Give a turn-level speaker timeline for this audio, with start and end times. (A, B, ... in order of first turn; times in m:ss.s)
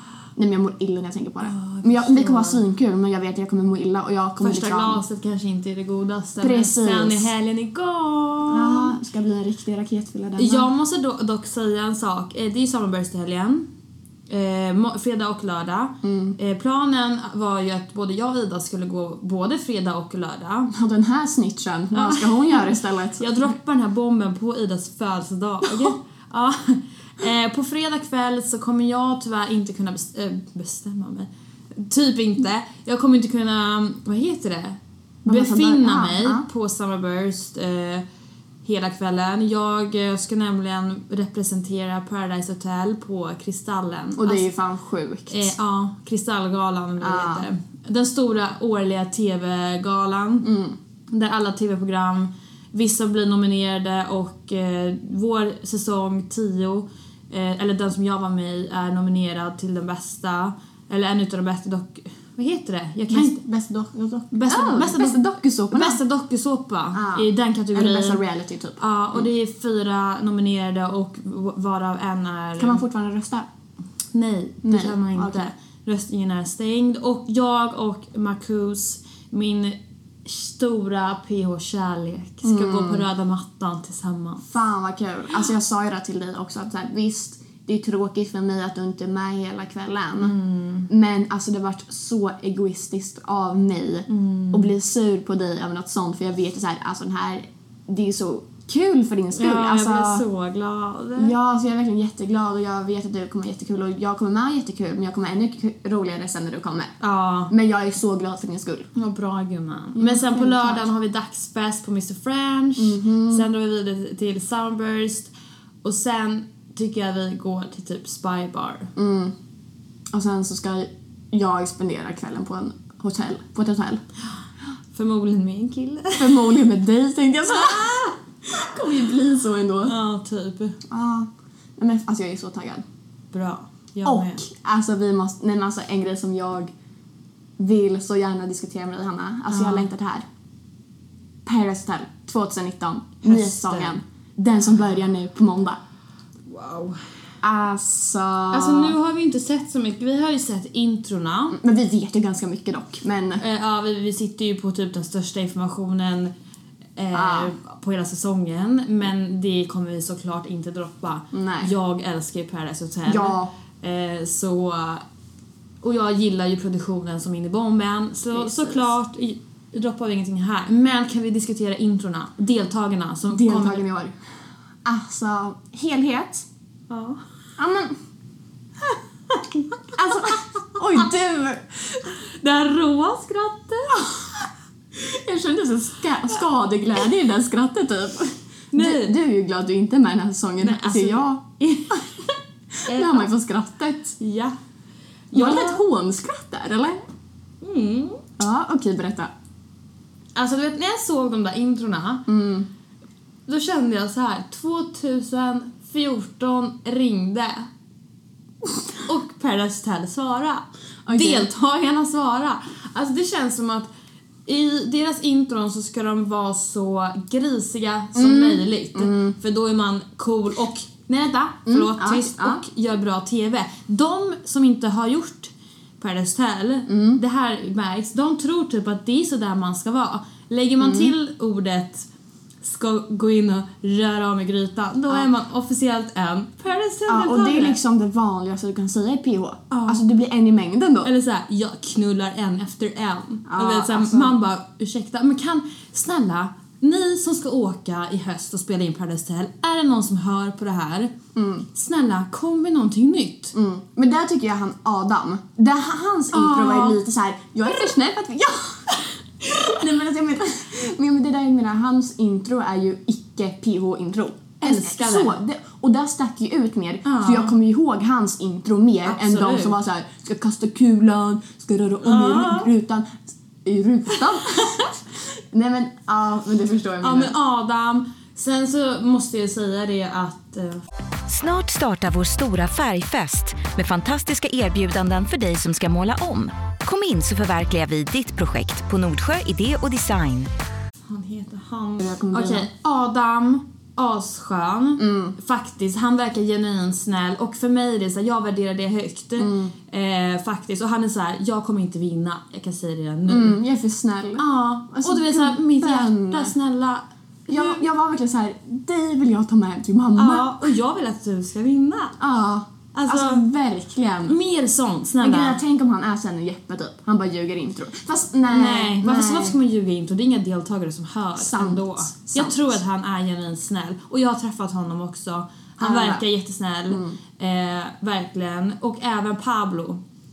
0:00.4-0:05.0 A
0:01.4-0:02.6 B
0:04.4-0:09.0 B
0:06.4-0:07.3 A
0:08.5-0:10.7 A
0:10.4-0:13.6 B
0:14.3-0:20.7 B
0:16.0-0:16.4 A
0:20.7-0:23.5 A
0:21.9-0:38.0 B
0:35.2-0:36.4 A
0:38.6-0:44.5 B
0:44.2-0:45.5 A
0:45.3-0:50.4 B
0:47.0-0:47.5 A
0:50.4-0:50.8 A
0:51.1-1:03.4 B
1:03.1-1:06.0 A
1:04.3-1:05.2 B
1:05.7-1:08.2 B
1:06.9-1:09.2 A
1:08.8-1:12.8 B
1:12.6-1:13.5 A
1:14.1-1:24.4 B
1:14.6-1:15.5 A
1:22.4-1:23.0 A
1:24.4-1:30.3 A
1:30.2-1:30.9 B
1:30.9-1:40.2 A
1:34.1-1:34.7 B
1:39.3-1:41.3 B
1:41.2-1:47.0 A
1:47.0-1:47.5 B
1:47.5-1:48.9 A
1:48.9-1:55.3 B
1:49.9-1:50.9 A
1:52.8-1:53.4 A
1:55.8-1:58.9 B
1:59.0-1:59.3 A
2:00.1-2:04.0 A
2:04.9-2:06.5 B
2:06.2-2:09.9 A
2:09.8-2:10.8 B
2:10.9-2:12.8 A
2:13.3-2:14.4 B
2:14.0-2:16.7 A
2:17.6-2:20.2 A
2:19.5-2:19.9 B
2:21.4-2:25.8 A
2:23.2-2:24.0 B
2:26.5-2:27.0 B
2:27.4-2:29.0 A
2:28.5-2:31.6 B
2:31.5-2:33.4 A
2:33.4-2:36.3 B
2:37.0-2:45.0 B
2:37.1-2:37.5 A
2:41.3-2:41.7 A
2:43.0-2:43.5 A
2:45.8-2:53.8 B
2:48.3-2:48.9 A
2:53.3-2:54.1 A
2:54.8-2:56.5 A
2:56.9-2:57.2 B
2:57.6-2:58.0 A
2:59.3-3:00.1 B
2:59.9-3:02.1 A
3:02.2-3:04.0 B
3:04.9-3:11.4 A
3:08.7-3:09.2 B
3:10.6-3:12.2 B
3:12.8-3:14.2 A
3:12.9-3:13.3 B
3:14.2-3:14.6 B
3:15.3-3:15.8 B
3:15.3-3:17.0 A
3:17.6-3:18.2 B
3:18.4-3:19.3 A
3:20.3-3:22.2 B
3:22.3-3:22.7 A
3:23.5-3:27.7 B
3:29.0-3:33.9 B
3:31.0-3:31.5 A
3:34.4-3:52.1 B
3:38.1-3:39.4 A
3:41.6-3:42.6 A
3:46.9-3:47.2 A
3:50.8-3:51.1 A
3:52.6-3:57.8 B
3:57.1-4:01.1 A
3:59.7-4:00.0 B
4:01.0-4:11.1 B
4:03.4-4:04.3 A
4:11.3-4:11.7 A
4:11.7-4:13.5 B
4:13.5-4:35.0 A
4:16.3-4:17.0 B
4:24.6-4:25.4 B
4:27.0-4:27.5 B
4:29.0-4:29.8 B
4:32.0-4:32.7 B
4:35.5-4:37.3 A
4:37.0-4:40.8 B
4:41.3-4:50.5 C
4:51.0-5:03.6 B
4:52.0-4:52.7 A
4:55.0-4:55.4 A
4:59.4-4:59.7 A
5:03.3-5:06.5 A
5:04.4-5:07.8 B
5:07.5-5:10.7 A
5:10.2-5:12.2 B
5:12.2-5:14.4 A
5:12.9-5:13.4 B
5:14.2-5:15.6 B
5:15.2-5:19.6 A
5:18.5-5:30.0 B
5:21.4-5:22.8 A
5:25.8-5:26.2 A
5:26.9-5:27.2 A